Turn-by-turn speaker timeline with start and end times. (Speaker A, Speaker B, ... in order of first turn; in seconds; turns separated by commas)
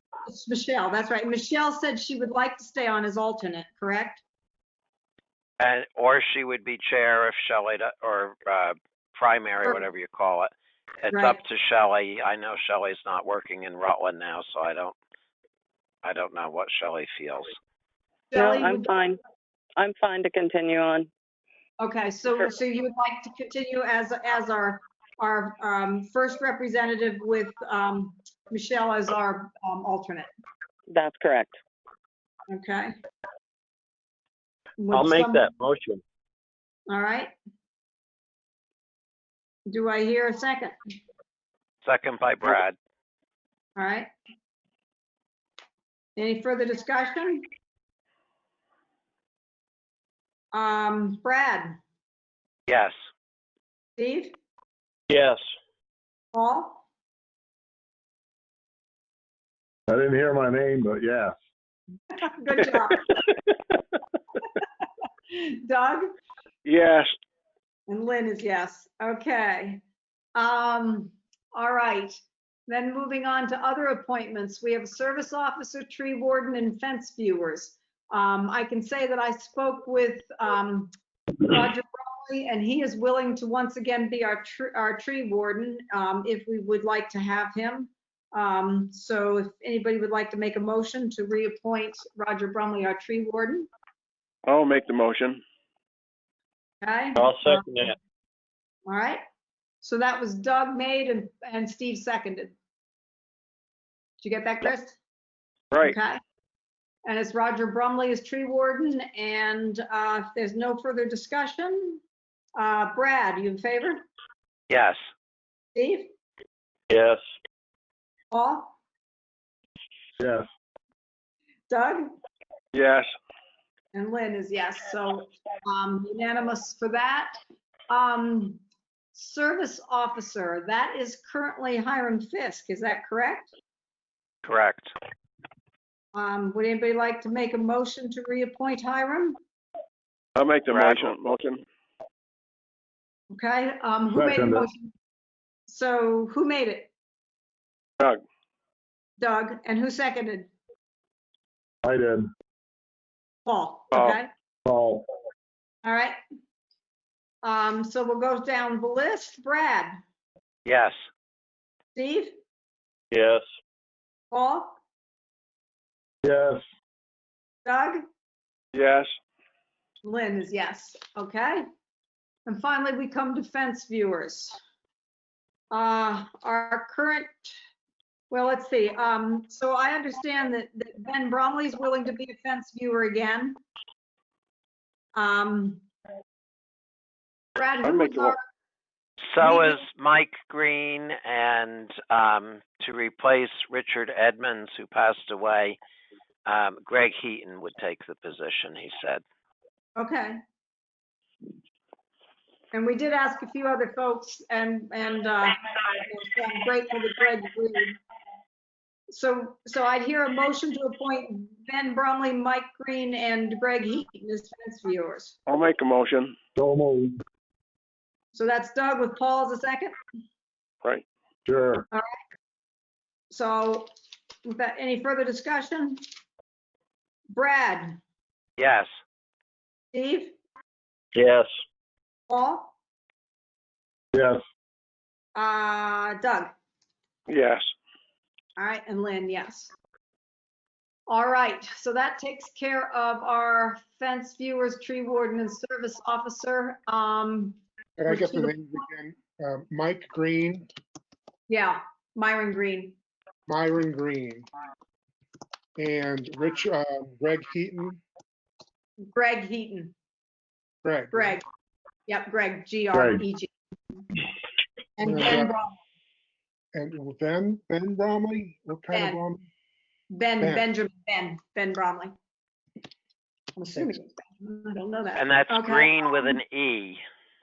Speaker A: 0.2-4.2, Speaker B: 5.6-10.5, Speaker B: 11.0-14.9, Speaker A: 11.1-11.4, Speaker B: 16.0-17.5, Speaker A: 18.3-18.9, Speaker C: 18.3-19.2, Speaker C: 19.8-21.1, Speaker A: 21.8-30.3, Speaker C: 30.9-31.6, Speaker A: 32.5-33.0, Speaker A: 34.8-35.5, Speaker D: 34.9-36.0, Speaker A: 36.9-37.3, Speaker A: 39.7-40.7, Speaker B: 41.8-42.8, Speaker A: 43.8-44.1, Speaker A: 46.2-47.4, Speaker A: 50.5-51.8, Speaker B: 52.7-52.9, Speaker A: 54.0-54.3, Speaker D: 55.1-55.4, Speaker A: 56.3-56.8, Speaker E: 59.9-61.3, Speaker A: 62.1-63.1, Speaker A: 65.3-66.1, Speaker F: 66.6-67.1, Speaker A: 67.9-69.8, Speaker A: 70.4-80.9, Speaker A: 81.4-93.7, Speaker F: 94.5-95.4, Speaker A: 96.8-97.9, Speaker D: 97.2-97.9, Speaker A: 98.9-99.2, Speaker A: 99.8-102.5, Speaker A: 104.2-105.0, Speaker A: 105.8-106.2, Speaker A: 107.0-112.0, Speaker A: 112.5-114.0, Speaker B: 114.7-115.0, Speaker A: 115.8-116.1, Speaker F: 116.9-117.2, Speaker A: 118.3-118.8, Speaker E: 120.2-120.5, Speaker A: 121.7-122.1, Speaker F: 122.7-123.1, Speaker A: 123.9-127.3, Speaker A: 127.9-128.6, Speaker A: 129.2-133.5, Speaker B: 134.4-134.9, Speaker A: 136.1-139.4, Speaker F: 140.3-141.6, Speaker B: 140.7-141.1, Speaker A: 143.3-144.9, Speaker E: 144.1-144.7, Speaker A: 145.7-146.9, Speaker A: 149.2-150.5, Speaker E: 151.8-152.3, Speaker A: 153.4-154.3, Speaker E: 154.7-155.0, Speaker A: 155.8-156.2, Speaker A: 157.4-159.9, Speaker B: 160.7-160.9, Speaker A: 161.9-162.3, Speaker F: 163.1-163.4, Speaker A: 164.3-164.8, Speaker E: 166.2-166.6, Speaker A: 167.7-168.0, Speaker F: 168.7-169.1, Speaker A: 170.0-171.6, Speaker A: 172.5-174.6, Speaker A: 175.7-177.6, Speaker A: 178.3-183.6, Speaker A: 185.2-185.8, Speaker A: 187.6-188.4, Speaker F: 187.8-188.3, Speaker B: 189.2-195.8, Speaker A: 189.4-189.8, Speaker B: 196.5-199.2, Speaker A: 200.0-200.4, Speaker A: 202.7-208.0, Speaker A: 209.1-215.3, Speaker F: 215.5-216.3, Speaker E: 216.6-217.1, Speaker A: 218.3-219.9, Speaker E: 221.5-221.8, Speaker A: 221.9-222.2, Speaker A: 223.3-223.9, Speaker A: 224.4-226.0, Speaker A: 227.3-228.0, Speaker B: 228.6-228.9, Speaker A: 229.9-230.3, Speaker D: 231.2-231.5, Speaker F: 231.2-231.5, Speaker A: 232.3-232.7, Speaker E: 234.1-234.4, Speaker A: 235.3-236.5, Speaker F: 237.3-237.7, Speaker A: 238.6-239.7, Speaker A: 241.1-248.5, Speaker G: 248.0-250.7, Speaker A: 251.5-253.0, Speaker G: 253.5-254.4, Speaker G: 255.8-258.0, Speaker A: 259.1-259.9, Speaker G: 260.8-261.4, Speaker A: 261.1-261.4, Speaker A: 262.1-264.0, Speaker E: 262.9-263.2, Speaker A: 265.0-265.8, Speaker G: 265.0-265.6, Speaker G: 266.7-269.4, Speaker A: 268.9-269.2, Speaker A: 270.1-272.1, Speaker G: 270.4-270.7, Speaker A: 273.6-276.3, Speaker B: 275.1-277.0